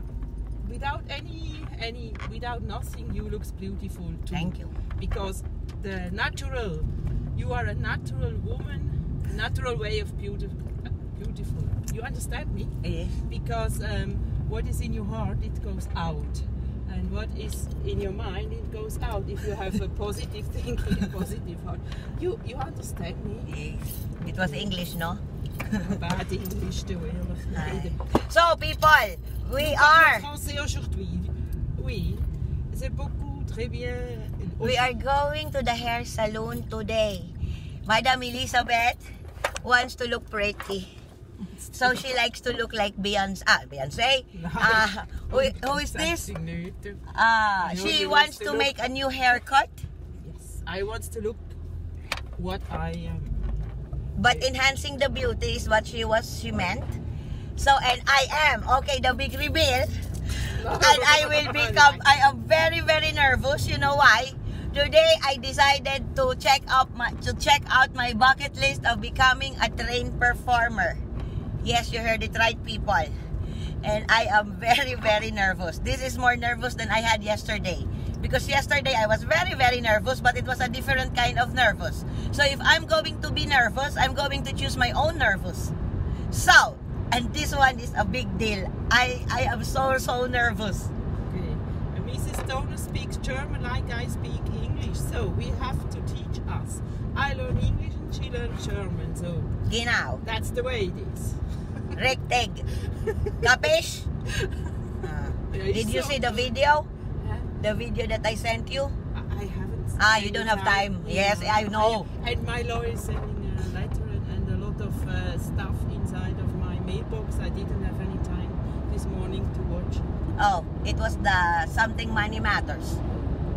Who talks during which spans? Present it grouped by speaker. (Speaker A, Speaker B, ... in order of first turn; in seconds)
Speaker A: 0.6-23.5, 24.3-24.7, 25.7-28.0, 29.6-34.9, 41.5-42.0, 44.3-47.0, 47.6-48.7, 50.2-51.5, 52.4-53.6, 60.4-62.0, 91.2-99.5, 100.2-102.0, 102.8-103.5, 104.4-104.9, 105.5-106.5, 107.2-107.5, 109.1-120.1
Speaker B: 4.3-4.7, 12.8-13.2, 23.5-25.2, 27.5-30.3, 34.6-37.3, 37.9-39.0, 39.6-40.9, 41.7-46.3, 47.1-49.8, 54.2-57.0, 57.6-71.0, 71.6-73.1, 73.8-85.7, 86.3-90.9, 99.7-100.2, 102.0-102.6, 103.4-104.1, 105.0-106.9, 107.6-109.0, 110.0-112.1, 120.4-123.0